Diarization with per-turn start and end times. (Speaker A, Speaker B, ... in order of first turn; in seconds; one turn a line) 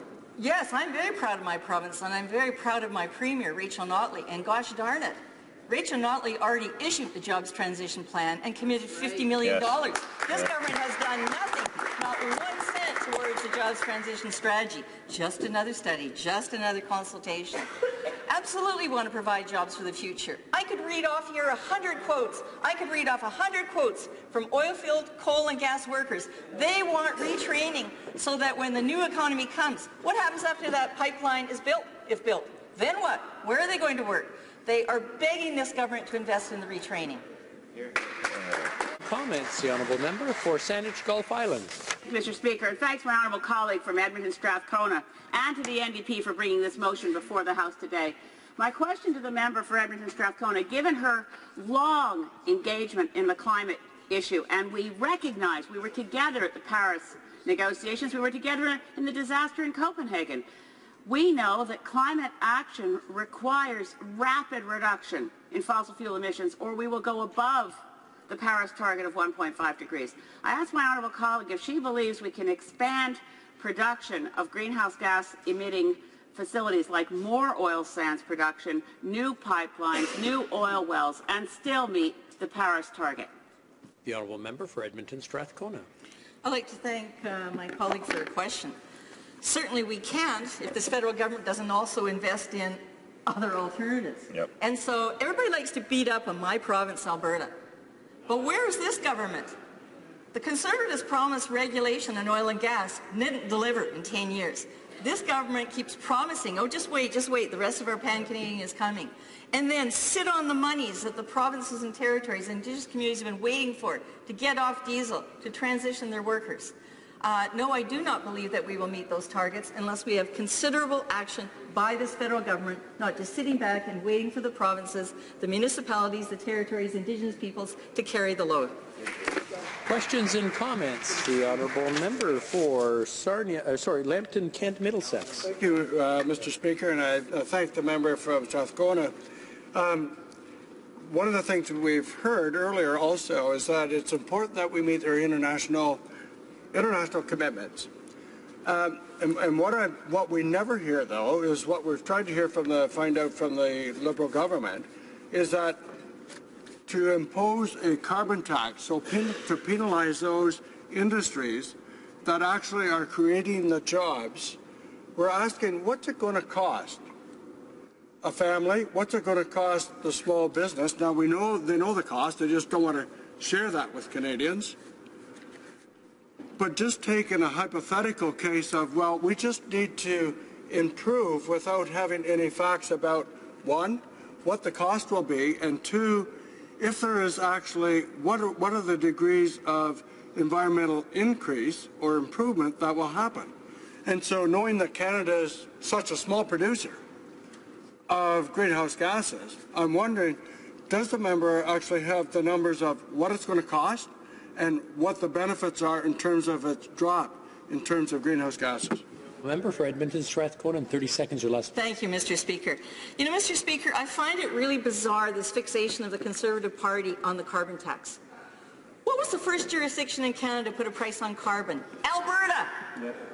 Speaker A: 0.4-17.7
Speaker A: 18.3-37.2
Speaker B: 39.0-41.8
Speaker C: 42.0-60.5
Speaker C: 61.0-83.3
Speaker B: 84.0-85.9
Speaker A: 86.4-88.8
Speaker A: 89.4-97.5
Speaker A: 98.3-99.5
Speaker A: 100.3-128.8
Speaker B: 129.8-135.5
Speaker D: 135.5-139.1
Speaker D: 139.7-140.2
Speaker D: 141.1-146.0
Speaker D: 146.7-147.9
Speaker D: 148.6-155.8
Speaker D: 156.8-164.6
Speaker D: 165.2-167.0
Speaker D: 168.2-174.8
Speaker D: 176.6-193.5
Speaker D: 194.0-197.0
Speaker D: 198.1-209.0
Speaker B: 209.4-211.7
Speaker A: 211.7-218.2
Speaker A: 219.0-222.9